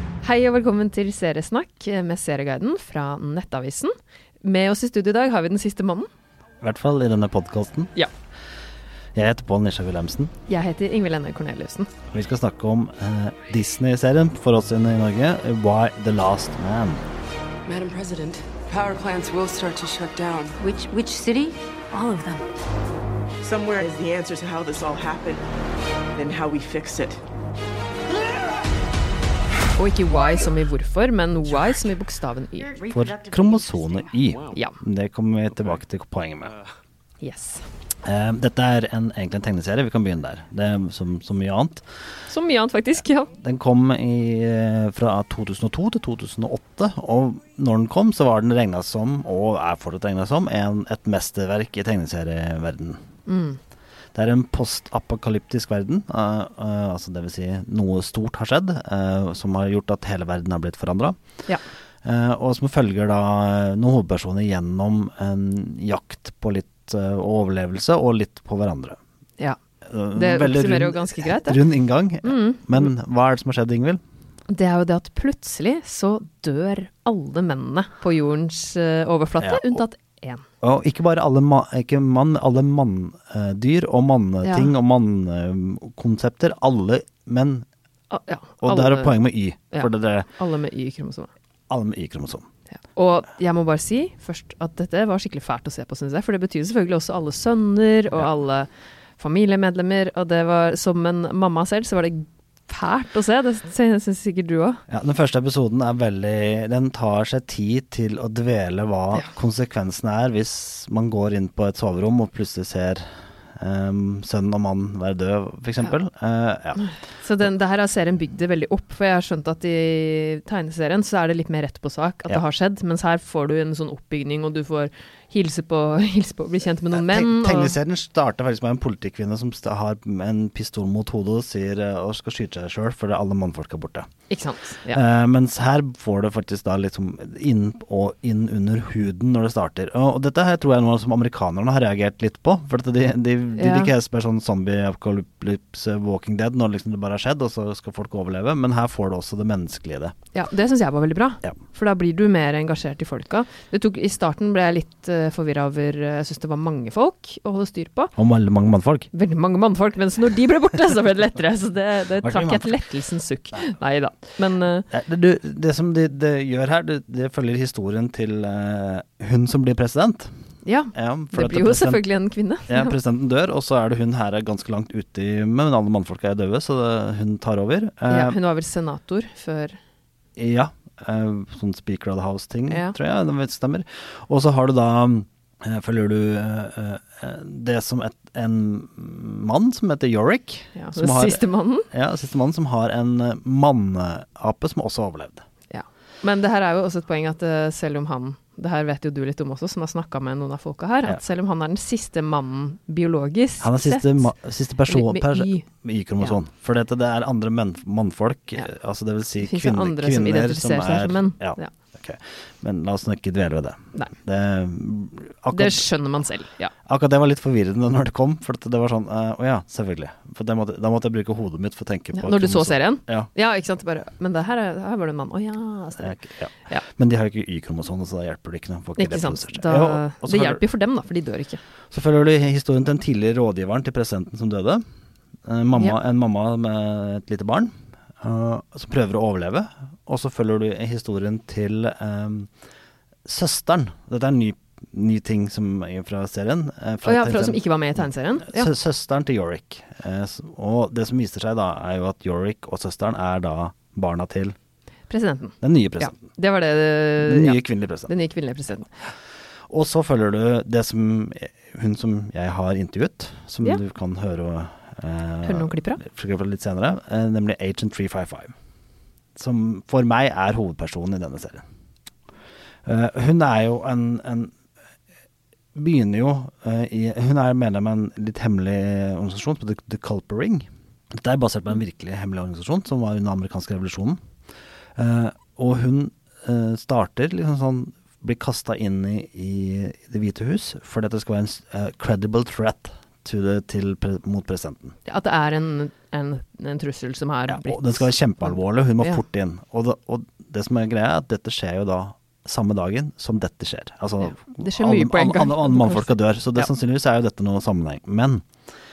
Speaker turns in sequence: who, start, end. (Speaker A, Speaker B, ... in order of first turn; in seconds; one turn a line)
Speaker A: 0.2-6.1
Speaker B: 6.6-7.9
Speaker B: 9.2-10.3
Speaker A: 10.5-11.9
Speaker B: 12.1-17.0
Speaker C: 17.7-20.6
Speaker D: 20.6-22.4
Speaker C: 23.4-25.4
Speaker C: 26.2-27.2
Speaker A: 29.8-32.7
Speaker D: 32.6-34.0
Speaker B: 32.9-36.5
Speaker A: 37.2-37.6
Speaker B: 38.0-41.8
Speaker A: 42.3-43.3
Speaker B: 43.3-53.0
Speaker A: 53.3-53.6
Speaker B: 54.1-61.2
Speaker B: 62.0-69.0
Speaker B: 69.9-74.0
Speaker A: 70.1-71.7
Speaker A: 72.2-72.8
Speaker A: 74.5-80.5
Speaker B: 79.4-79.8
Speaker B: 80.6-87.7
Speaker A: 84.4-84.7
Speaker A: 88.1-91.3
Speaker B: 88.6-90.3
Speaker B: 91.7-92.5
Speaker A: 92.9-104.8
Speaker B: 104.9-113.0
Speaker B: 113.6-116.8
Speaker A: 116.8-127.8
Speaker B: 126.9-134.1
Speaker A: 134.3-135.0
Speaker B: 134.9-150.1
Speaker A: 143.6-143.9
Speaker A: 150.3-158.1
Speaker B: 158.2-159.1
Speaker A: 159.1-164.9
Speaker B: 162.2-162.8
Speaker B: 164.9-170.3
Speaker A: 170.6-172.9
Speaker B: 170.9-172.0
Speaker B: 172.7-178.4
Speaker A: 178.1-179.8
Speaker B: 180.4-195.4
Speaker A: 182.7-183.0
Speaker A: 190.8-191.9
Speaker A: 195.7-204.3
Speaker B: 203.6-215.9
Speaker A: 204.9-205.7
Speaker A: 209.4-211.7
Speaker A: 215.5-216.7
Speaker B: 216.8-223.3
Speaker A: 222.1-226.8
Speaker B: 226.0-230.6
Speaker A: 229.0-231.6
Speaker B: 231.9-234.8
Speaker B: 235.4-242.5
Speaker B: 243.2-254.6
Speaker A: 247.1-248.7
Speaker A: 255.1-258.9
Speaker B: 255.6-256.2
Speaker B: 257.2-258.1
Speaker B: 259.7-268.5
Speaker A: 265.4-266.0
Speaker B: 269.4-271.6
Speaker B: 272.9-274.5
Speaker B: 275.8-284.2
Speaker B: 285.0-295.0
Speaker A: 295.1-299.2
Speaker B: 297.5-308.5
Speaker A: 304.2-306.7